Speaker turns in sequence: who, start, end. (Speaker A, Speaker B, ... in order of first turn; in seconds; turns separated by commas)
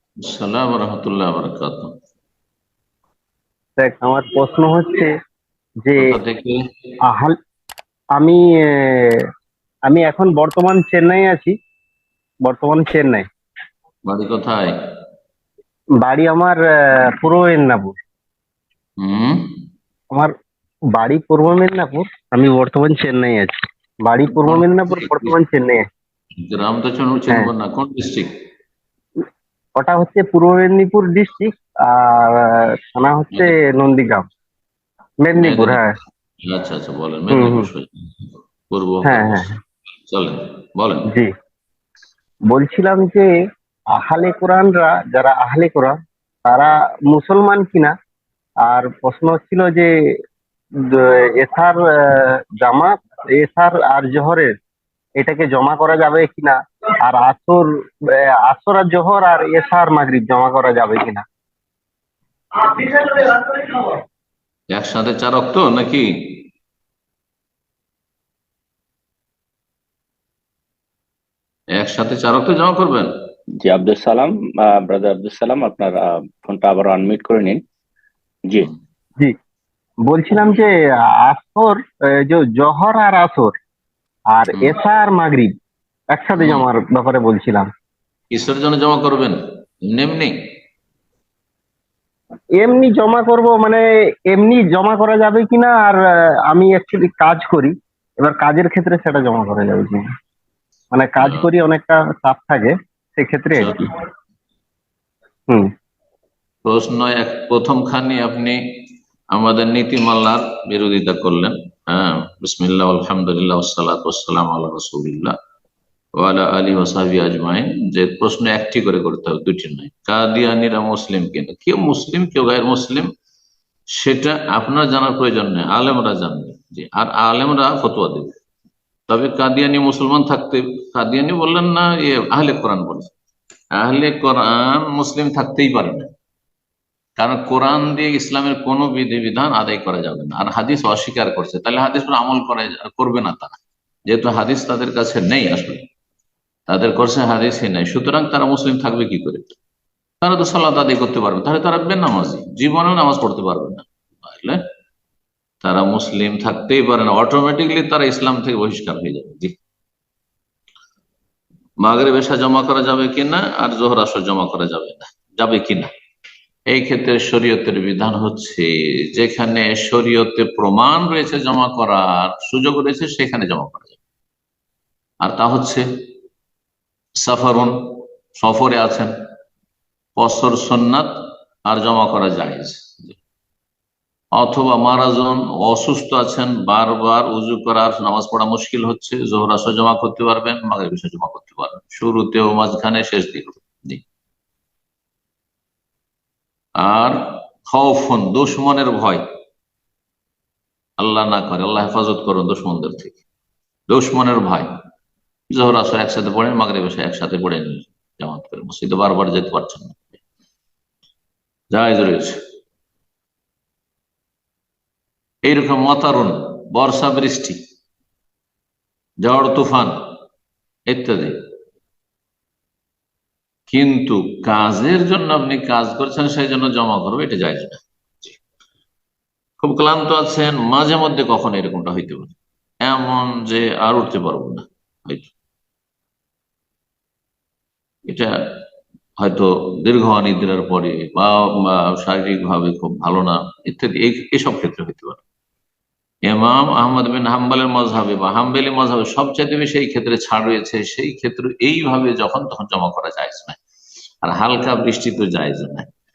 Speaker A: 0.2-1.9, Speaker B: 3.8-5.1, Speaker B: 5.8-6.1, Speaker A: 6.0-6.6, Speaker B: 7.1-7.4, Speaker B: 8.1-9.2, Speaker B: 9.9-11.6, Speaker B: 12.4-13.2, Speaker A: 14.1-14.8, Speaker B: 16.0-17.9, Speaker A: 19.0-19.6, Speaker B: 20.9-25.8, Speaker A: 24.4-25.3, Speaker A: 26.4-28.3, Speaker B: 29.8-34.2, Speaker B: 35.2-35.9, Speaker A: 35.3-35.8, Speaker A: 36.4-41.1, Speaker B: 37.3-37.7, Speaker B: 39.0-39.5, Speaker B: 42.5-43.2, Speaker B: 43.9-47.9, Speaker B: 48.7-49.9, Speaker B: 50.9-54.5, Speaker B: 55.2-57.7, Speaker B: 58.4-61.2, Speaker B: 62.6-64.0, Speaker A: 64.7-66.5, Speaker A: 71.7-73.3, Speaker C: 73.6-77.6, Speaker B: 80.1-80.7, Speaker B: 81.2-83.5, Speaker B: 84.3-85.5, Speaker B: 86.1-87.7, Speaker A: 86.4-86.7, Speaker A: 88.3-90.3, Speaker B: 92.6-100.0, Speaker B: 100.9-103.9, Speaker A: 101.2-101.5, Speaker A: 103.6-103.8, Speaker A: 106.7-108.6, Speaker A: 109.3-115.3, Speaker A: 116.2-123.1, Speaker A: 124.0-128.3, Speaker A: 129.1-133.2, Speaker A: 133.8-136.1, Speaker A: 137.2-145.9, Speaker A: 146.7-149.6, Speaker A: 150.2-154.6, Speaker A: 155.6-159.5, Speaker A: 161.8-165.9, Speaker A: 166.7-174.0, Speaker A: 175.2-175.8, Speaker A: 177.2-179.1, Speaker A: 180.2-183.2, Speaker A: 184.3-194.0, Speaker A: 196.8-199.2, Speaker A: 201.0-203.2, Speaker A: 203.9-204.7, Speaker A: 205.5-210.2, Speaker A: 211.7-212.4, Speaker A: 215.4-217.6, Speaker A: 219.2-220.0, Speaker A: 220.9-221.3, Speaker A: 223.7-228.4, Speaker A: 229.6-235.3, Speaker A: 238.1-238.3, Speaker A: 239.2-245.2, Speaker A: 246.3-253.6, Speaker A: 254.2-255.9